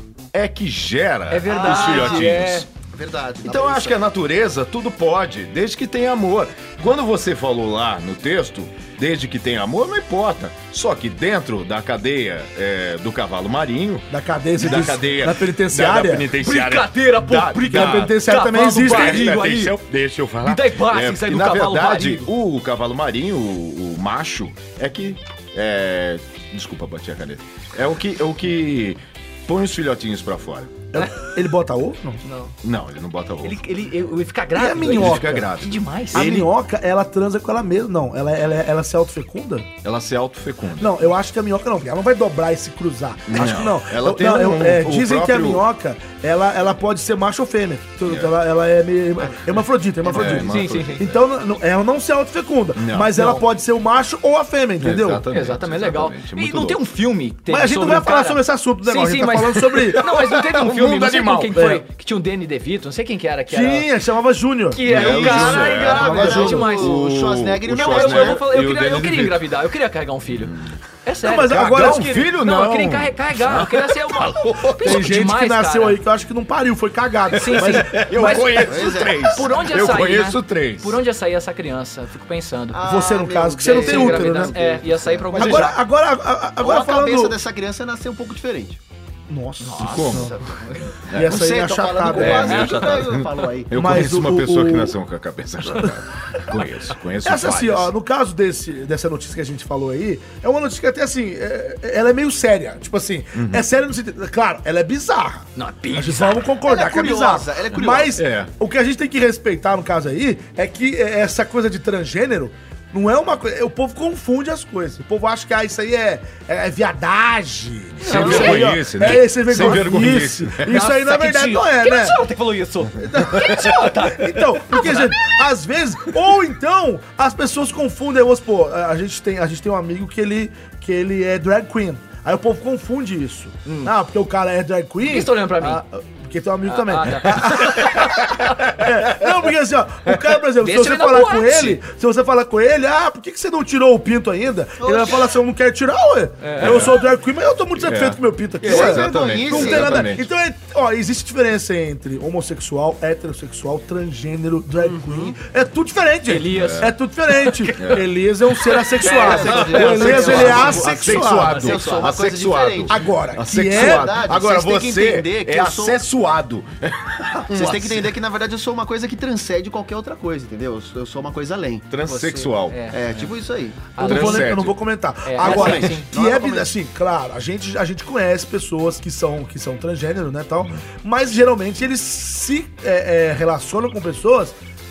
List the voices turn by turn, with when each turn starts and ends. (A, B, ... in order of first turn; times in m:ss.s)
0:00.3-0:02.6 A
0:01.3-0:02.6 B
0:01.5-0:04.0 C
0:03.4-0:18.2 A
0:14.1-0:16.3 D
0:16.4-0:19.8 B
0:17.6-0:19.3 D
0:18.8-0:30.7 A
0:20.4-0:22.3 B
0:30.9-0:32.2 D
0:32.2-0:32.5 B
0:32.6-0:33.6 A
0:33.4-0:36.4 B
0:34.5-0:35.5 D
0:34.7-0:36.5 A
0:36.1-0:39.7 D
0:39.8-0:41.1 A
0:40.8-0:55.2 D
0:43.3-0:45.6 A
0:48.0-0:48.3 A
0:50.0-0:51.2 A
0:50.4-0:51.0 B
0:52.8-0:53.2 A
0:53.2-0:53.4 B
0:54.8-0:56.8 A
0:55.3-1:03.9 B
0:57.5-1:00.0 D
1:00.0-1:01.6 A
1:01.5-1:01.8 D
1:03.5-1:04.8 D
1:04.7-1:07.0 B
1:04.8-1:09.4 A
1:04.9-1:08.4 C
1:05.9-1:06.7 D
1:07.7-1:16.0 B
1:11.2-1:12.1 D
1:11.5-1:15.1 A
1:14.8-1:18.7 D
1:17.3-1:22.8 B
1:17.3-1:21.0 A
1:18.6-1:19.4 C
1:22.7-1:25.7 C
1:22.8-1:24.6 D
1:23.6-1:25.8 B
1:25.3-1:27.4 D
1:25.4-1:25.7 A
1:26.6-1:28.8 C
1:29.3-1:30.4 D
1:29.6-1:30.9 B
1:29.8-1:30.3 A
1:31.0-1:31.4 A
1:31.1-1:32.8 D
1:31.2-1:33.8 C
1:32.1-1:37.9 A
1:32.3-1:33.1 B
1:33.7-1:35.0 D
1:37.2-2:02.2 D
1:43.3-1:43.6 A
1:45.6-1:46.5 B
1:46.6-1:48.2 C
1:48.2-1:48.5 A
1:58.0-2:00.8 A
1:58.1-1:59.9 B
2:00.6-2:05.2 B
2:03.0-2:41.6 D
2:03.4-2:03.7 A
2:13.6-2:13.9 B
2:15.0-2:15.8 B
2:16.6-2:18.3 B
2:17.8-2:19.3 A
2:20.6-2:21.8 B
2:24.8-2:25.3 C
2:26.4-2:26.9 B
2:26.6-2:27.0 A
2:27.8-2:30.3 A
2:28.6-2:28.9 B
2:28.6-2:30.1 C
2:34.8-2:35.4 C
2:36.3-2:38.0 B
2:36.5-2:36.9 A
2:37.8-2:38.0 A
2:38.6-2:42.1 B
2:39.0-2:42.9 C
2:39.4-2:48.1 A
2:42.9-2:44.3 D
2:43.6-2:46.0 C
2:47.5-2:51.8 C
2:51.9-2:52.9 A
2:52.0-2:53.0 B
2:52.9-2:53.9 C
2:53.9-2:54.5 B
2:54.0-3:04.5 D
2:54.0-2:54.8 A
2:55.2-2:56.1 B
2:55.4-2:56.7 C